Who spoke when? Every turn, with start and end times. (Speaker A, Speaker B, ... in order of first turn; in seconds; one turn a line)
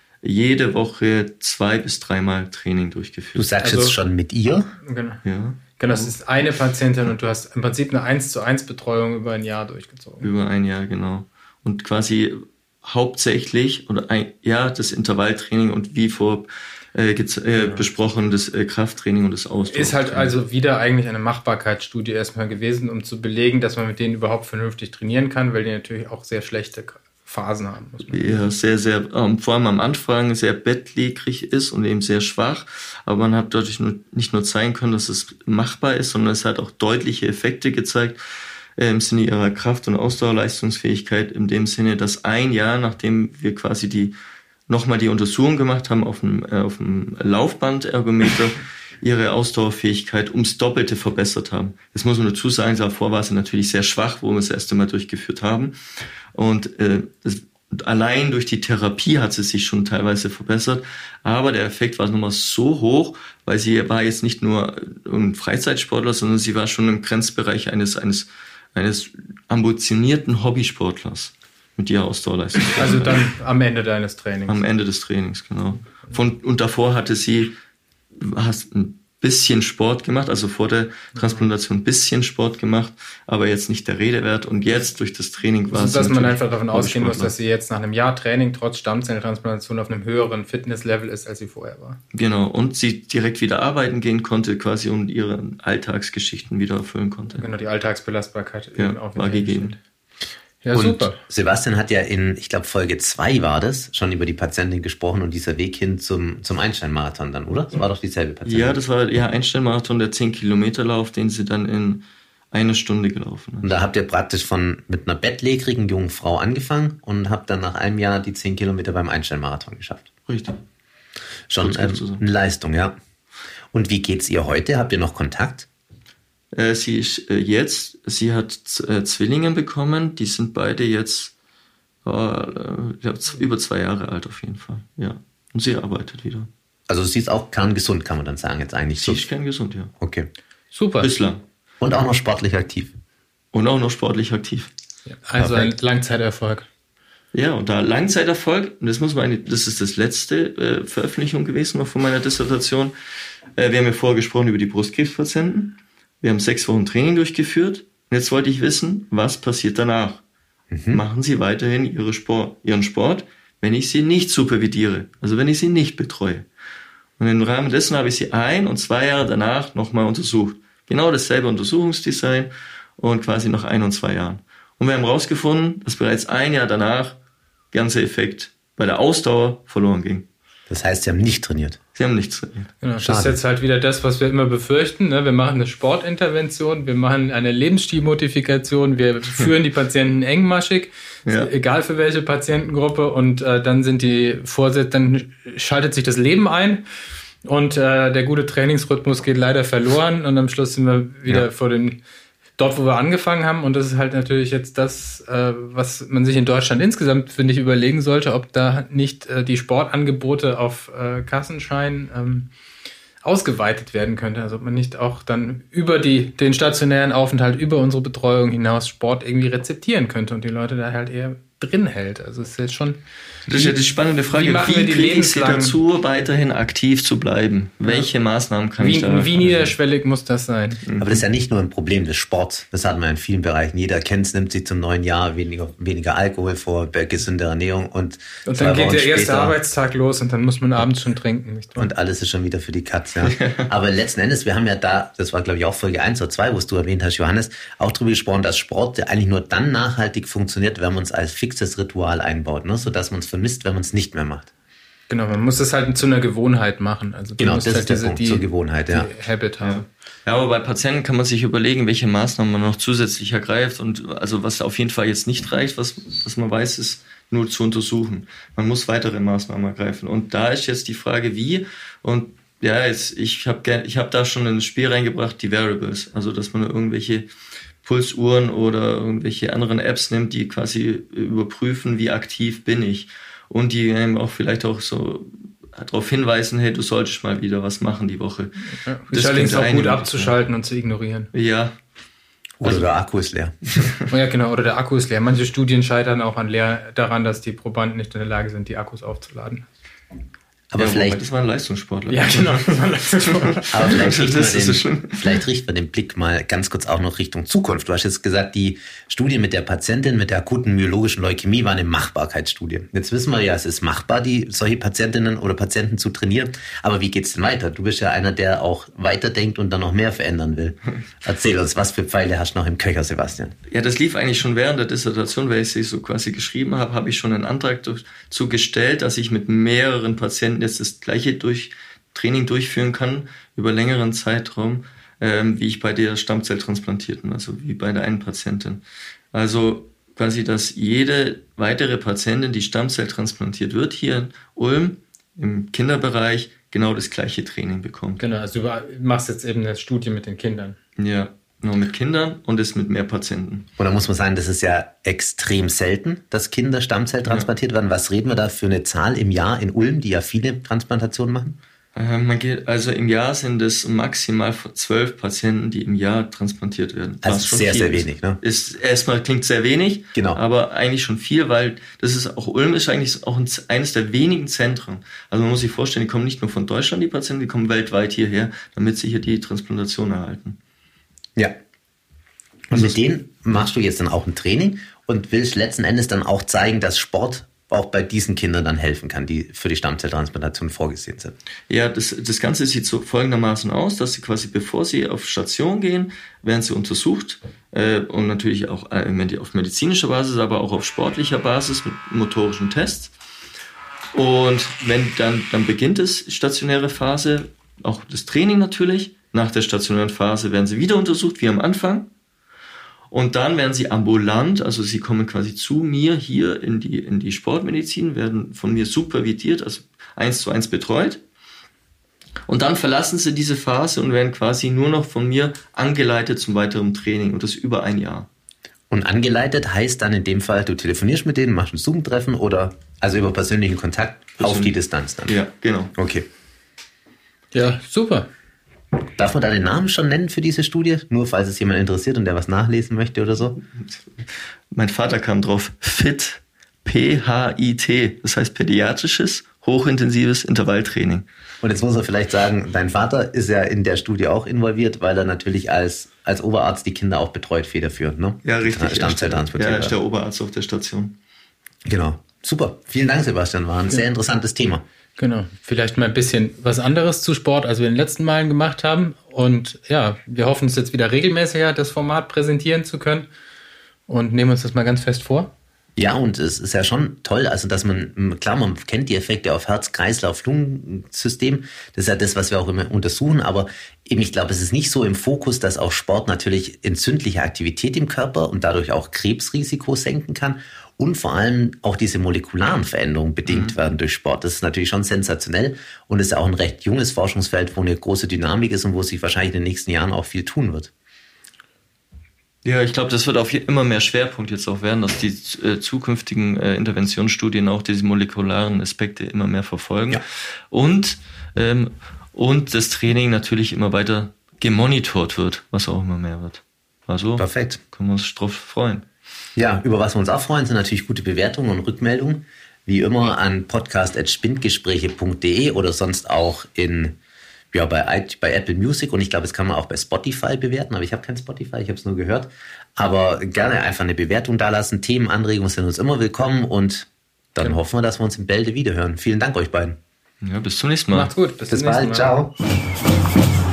Speaker A: 0.2-3.5
Speaker B: 3.4-4.7
Speaker C: 3.6-3.9
Speaker C: 4.8-5.2
Speaker A: 5.2-6.1
Speaker C: 5.8-10.3
Speaker A: 10.2-20.3
Speaker C: 17.6-17.9
Speaker C: 19.7-28.4
Speaker A: 28.1-38.2
Speaker A: 38.8-44.1
Speaker A: 44.7-55.7
Speaker A: 56.3-73.2
Speaker C: 72.8-74.6
Speaker A: 74.5-77.5
Speaker A: 78.1-87.3
Speaker C: 85.7-92.0
Speaker A: 92.1-97.5
Speaker C: 97.3-99.8
Speaker A: 98.8-99.7
Speaker C: 100.6-101.2
Speaker B: 100.7-108.8
Speaker A: 108.4-113.7
Speaker B: 113.6-120.1
Speaker A: 120.3-120.6
Speaker B: 121.5-123.0
Speaker A: 121.6-122.2
Speaker B: 123.7-125.7
Speaker A: 126.5-131.3
Speaker A: 132.0-136.5
Speaker B: 136.9-139.2
Speaker A: 138.9-139.9
Speaker B: 140.0-140.3
Speaker C: 140.7-141.1
Speaker A: 141.0-141.4
Speaker B: 141.8-142.9
Speaker A: 143.5-144.7
Speaker C: 145.1-146.7
Speaker B: 145.4-145.7
Speaker A: 147.3-152.9
Speaker A: 153.6-160.2
Speaker B: 160.7-161.0
Speaker A: 160.9-166.4
Speaker A: 167.2-177.2
Speaker A: 177.7-180.2
Speaker B: 180.7-181.8
Speaker A: 181.9-182.7
Speaker C: 182.8-196.8
Speaker B: 183.0-183.4
Speaker C: 197.4-202.0
Speaker C: 202.6-212.5
Speaker C: 213.2-223.8
Speaker A: 223.5-229.7
Speaker C: 224.3-225.8
Speaker C: 228.8-230.8
Speaker A: 230.8-231.2
Speaker B: 231.0-239.6
Speaker C: 238.4-241.9
Speaker B: 241.8-254.5
Speaker A: 243.2-243.6
Speaker C: 255.1-259.8
Speaker B: 257.4-259.1
Speaker A: 259.6-277.3
Speaker A: 277.8-290.3
Speaker C: 288.8-291.3
Speaker A: 291.3-291.7
Speaker B: 292.6-293.9
Speaker C: 294.1-299.7
Speaker B: 300.7-301.2
Speaker A: 300.8-302.7
Speaker C: 302.1-303.7
Speaker A: 303.3-305.4
Speaker B: 303.7-323.5
Speaker A: 323.7-338.8
Speaker A: 339.3-348.2
Speaker C: 348.2-350.8
Speaker A: 351.0-353.7
Speaker B: 353.8-361.6
Speaker A: 361.9-380.6
Speaker B: 367.2-368.4
Speaker B: 370.1-370.4
Speaker B: 382.7-391.3
Speaker A: 391.7-403.1
Speaker A: 404.1-412.1
Speaker A: 413.1-421.2
Speaker A: 422.4-428.3
Speaker B: 428.9-435.4
Speaker A: 434.4-434.7
Speaker A: 435.3-435.9
Speaker B: 435.9-436.2
Speaker C: 437.5-438.3
Speaker B: 439.1-443.6
Speaker A: 444.7-451.2
Speaker B: 451.6-460.0
Speaker A: 458.4-461.1
Speaker B: 461.8-464.8
Speaker C: 465.2-473.3
Speaker C: 474.1-475.5
Speaker B: 475.9-500.9
Speaker A: 493.5-493.7
Speaker A: 502.6-519.0
Speaker B: 517.4-517.8
Speaker B: 519.5-527.1
Speaker B: 527.7-540.0
Speaker A: 540.4-541.3
Speaker C: 541.1-542.3
Speaker B: 541.7-542.5